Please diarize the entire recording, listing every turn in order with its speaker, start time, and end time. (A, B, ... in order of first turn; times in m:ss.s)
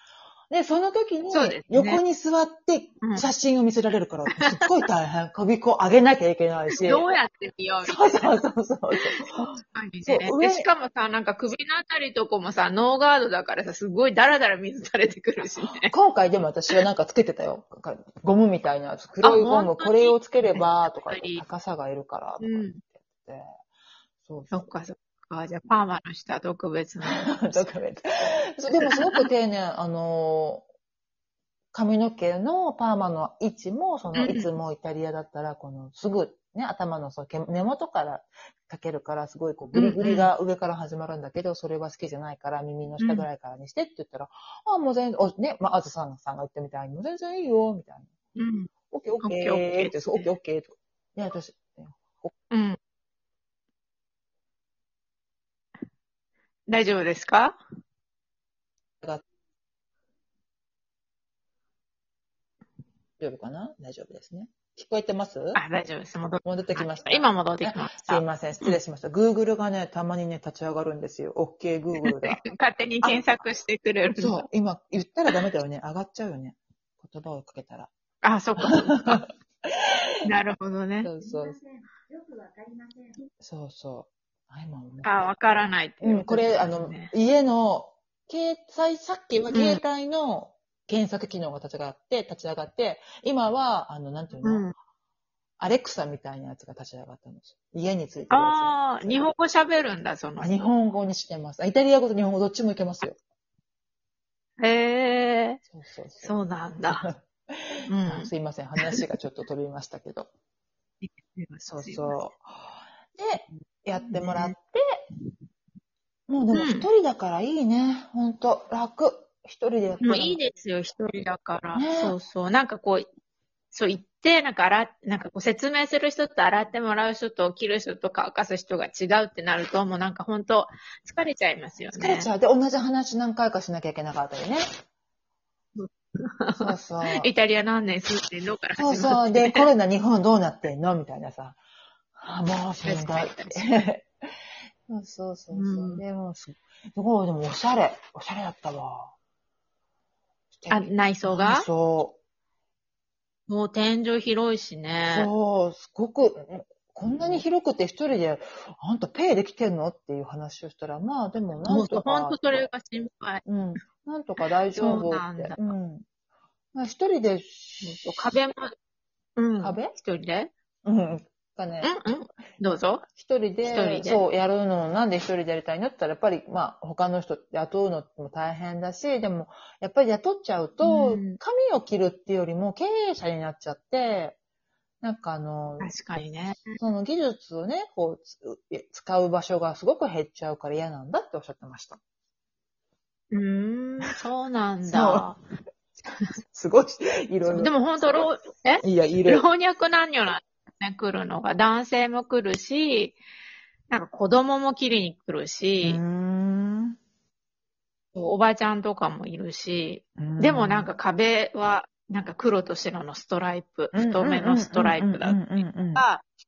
0:00.5-0:07.1 A
0:01.3-0:02.0 B
0:04.3-0:04.7 B
0:06.7-0:08.4 B
0:07.8-0:09.4 A
0:09.0-0:15.9 B
0:10.0-0:10.7 A
0:15.9-0:23.5 A
0:19.2-0:21.4 B
0:22.4-0:22.8 B
0:24.2-0:24.7 A
0:24.5-0:27.7 B
0:27.1-0:30.6 A
0:31.7-0:48.1 A
0:34.1-0:34.5 B
0:39.7-0:40.3 B
0:43.0-0:43.3 B
0:48.4-0:48.7 B
0:48.9-0:52.3 A
0:49.2-0:50.3 B
0:52.5-0:52.8 B
0:56.7-0:57.6 B
1:03.2-1:05.6 A
1:05.5-1:08.8 B
1:06.4-1:12.4 A
1:12.0-1:14.4 B
1:13.0-1:13.4 A
1:14.2-1:17.9 A
1:18.2-1:19.2 B
1:18.6-1:19.9 A
1:20.2-1:21.1 B
1:21.0-1:21.6 A
1:23.4-1:25.2 A
1:25.0-1:27.1 B
1:26.0-1:34.6 A
1:29.5-1:29.8 B
1:34.4-1:34.7 B
1:35.6-1:39.2 A
1:38.3-1:40.6 B
1:40.4-1:43.2 A
1:44.6-1:45.6 B
1:45.7-1:46.3 A
1:46.2-1:47.1 B
1:46.8-1:50.3 A
1:47.9-1:49.0 B
1:51.0-1:52.2 B
1:51.6-1:55.0 A
1:54.0-1:54.5 B
1:56.3-2:00.4 A
1:56.5-1:56.9 B
2:00.0-2:03.1 B
2:01.7-2:02.1 A
2:03.7-2:12.3 B
2:11.9-2:14.7 A
2:15.8-2:19.7 B
2:16.5-2:17.3 A
2:18.7-2:21.6 A
2:22.2-2:24.1 A
2:22.8-2:23.6 B
2:24.9-2:29.1 A
2:25.5-2:26.0 B
2:30.6-2:32.2 A
2:30.7-2:31.7 B
2:33.5-2:35.3 B
2:35.1-2:42.6 A
2:41.6-2:43.4 B
2:43.4-2:46.0 A
2:44.7-2:45.7 B
2:46.7-2:48.4 A
2:47.8-2:48.7 B
2:49.4-2:50.5 B
2:49.6-2:49.9 A
2:50.8-2:51.9 A
2:51.8-2:53.0 B
2:53.1-3:04.4 A
2:53.6-2:54.2 B
3:00.8-3:01.4 B
3:05.0-3:05.9 A
3:05.8-3:06.8 B
3:06.6-3:12.0 A
3:13.3-3:15.4 B
3:14.9-3:15.3 A
3:16.5-3:18.3 A
3:17.5-3:23.2 B
3:18.8-3:19.4 A
3:23.9-3:26.0 B
3:25.8-3:27.0 A
3:28.1-3:36.2 B
3:30.2-3:30.9 A
3:33.9-3:36.0 A